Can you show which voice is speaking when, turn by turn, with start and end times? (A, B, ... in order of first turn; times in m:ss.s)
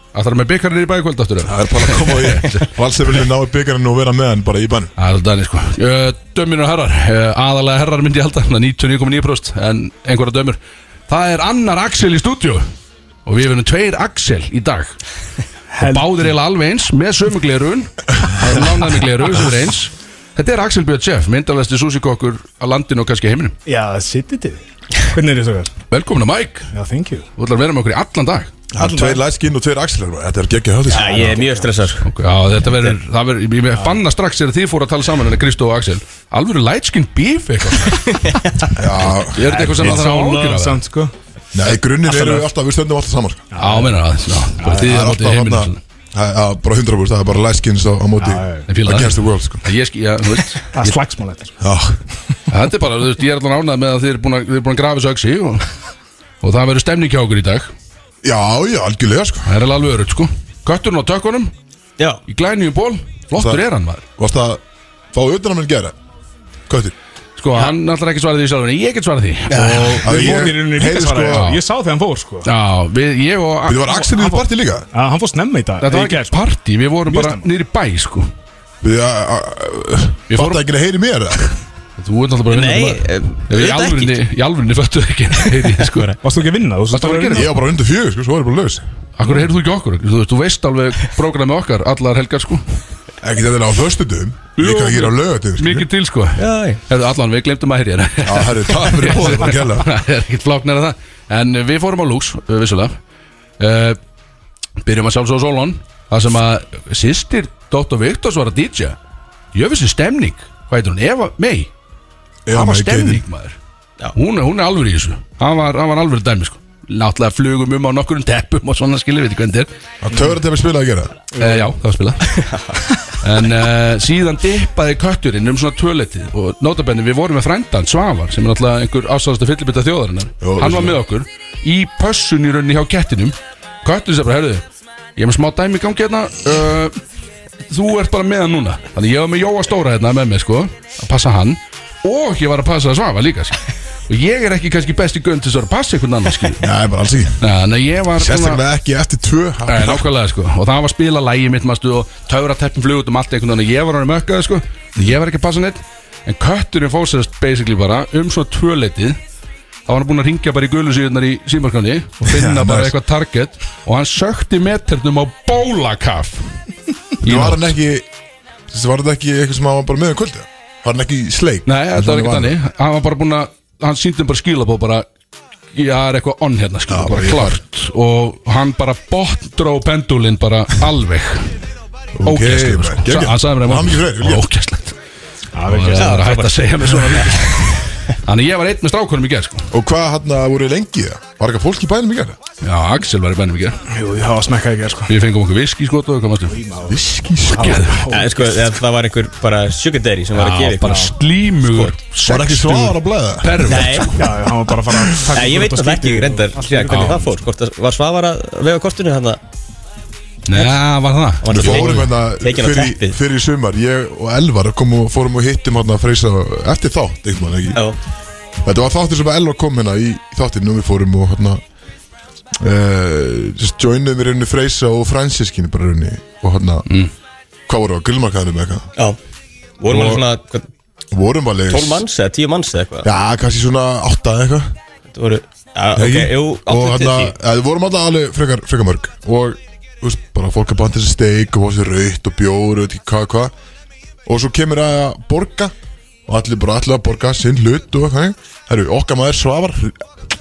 0:00.1-0:02.7 A
0:01.4-0:04.9 B
0:05.0-0:12.6 A
0:13.2-0:15.0 A
0:15.7-0:16.3 C
0:15.8-0:23.5 A
0:23.6-0:25.7 C
0:25.9-0:26.7 A
0:26.7-0:27.2 C
0:27.4-0:28.5 A
0:28.7-0:31.3 B
0:28.8-0:29.2 C
0:30.9-0:31.7 C
0:30.9-0:32.0 D
0:32.0-0:38.1 A
0:32.6-0:33.0 D
0:38.0-0:38.8 D
0:38.7-0:40.1 B
0:39.0-0:40.8 A
0:39.6-0:41.1 C
0:41.5-0:43.5 B
0:42.0-0:42.4 C
0:43.5-0:44.0 C
0:43.6-0:45.8 A
0:44.6-0:44.9 C
0:44.7-0:49.7 B
0:48.2-0:48.7 C
0:48.7-0:51.0 A
0:50.7-0:51.6 C
0:51.6-0:52.0 B
0:52.5-0:55.7 A
0:56.4-0:57.7 A
0:58.2-0:59.5 B
0:59.4-1:01.5 A
1:02.3-1:04.0 A
1:03.3-1:03.6 B
1:04.2-1:04.6 B
1:05.1-1:06.0 B
1:06.7-1:06.9 B
1:07.4-1:10.4 A
1:09.5-1:12.5 C
1:10.0-1:11.5 B
1:11.3-1:11.6 A
1:12.4-1:13.9 A
1:13.6-1:14.9 B
1:13.9-1:16.4 C
1:15.8-1:18.3 A
1:17.0-1:17.5 C
1:18.8-1:21.6 B
1:20.3-1:20.6 A
1:22.0-1:26.1 A
1:22.5-1:24.2 D
1:25.7-1:26.2 D
1:26.2-1:27.5 C
1:26.9-1:27.5 A
1:27.3-1:28.9 B
1:29.2-1:32.6 A
1:33.2-1:35.9 B
1:34.6-1:43.0 A
1:36.4-1:36.8 D
1:38.2-1:39.9 B
1:43.6-1:44.0 A
1:44.8-1:49.0 A
1:49.5-1:51.7 A
1:52.4-1:53.2 B
1:52.5-1:53.6 A
1:54.1-1:59.7 A
2:00.0-2:01.2 B
2:01.3-2:01.7 C
2:01.4-2:02.3 A
2:02.3-2:02.9 D
2:03.2-2:14.6 A
2:10.4-2:11.0 B
2:15.2-2:17.0 A
2:17.7-2:26.6 A
2:26.6-2:27.4 B
2:27.4-2:28.6 A
2:28.1-2:30.1 B
2:29.7-2:39.2 A
2:39.9-2:46.4 A
2:42.2-2:43.0 B
2:47.2-2:47.7 A
2:47.2-2:48.1 B
2:48.7-2:52.6 B
2:51.6-2:55.0 A
2:55.7-3:01.5 A
2:56.9-2:57.6 B
3:02.1-3:04.4 B
3:02.2-3:05.0 A
3:05.5-3:06.3 C
3:05.6-3:09.7 A
3:06.0-3:07.5 D
3:09.7-3:12.4 B
3:12.6-3:13.8 A
3:13.9-3:15.1 C
3:15.1-3:16.6 A
3:16.5-3:18.8 C
3:16.8-3:17.8 B
3:17.6-3:18.0 A
3:18.1-3:21.1 D
3:20.3-3:24.2 A
3:20.8-3:21.1 C
3:21.7-3:24.1 B
3:23.6-3:24.2 D
3:24.2-3:27.3 C
3:25.3-3:29.4 D
3:26.9-3:27.2 A
3:30.5-3:32.1 A
3:31.4-3:33.2 D
3:31.5-3:37.8 B
3:38.6-3:41.6 B
3:42.6-3:46.8 B
3:47.7-3:48.9 B
3:49.8-3:50.7 D
3:49.9-3:50.3 B
3:51.1-3:52.0 B
3:51.7-3:53.1 D
3:53.0-3:54.8 B
3:55.1-3:57.3 D
3:55.9-4:03.5 B
4:04.2-4:05.7 B
4:06.3-4:10.0 B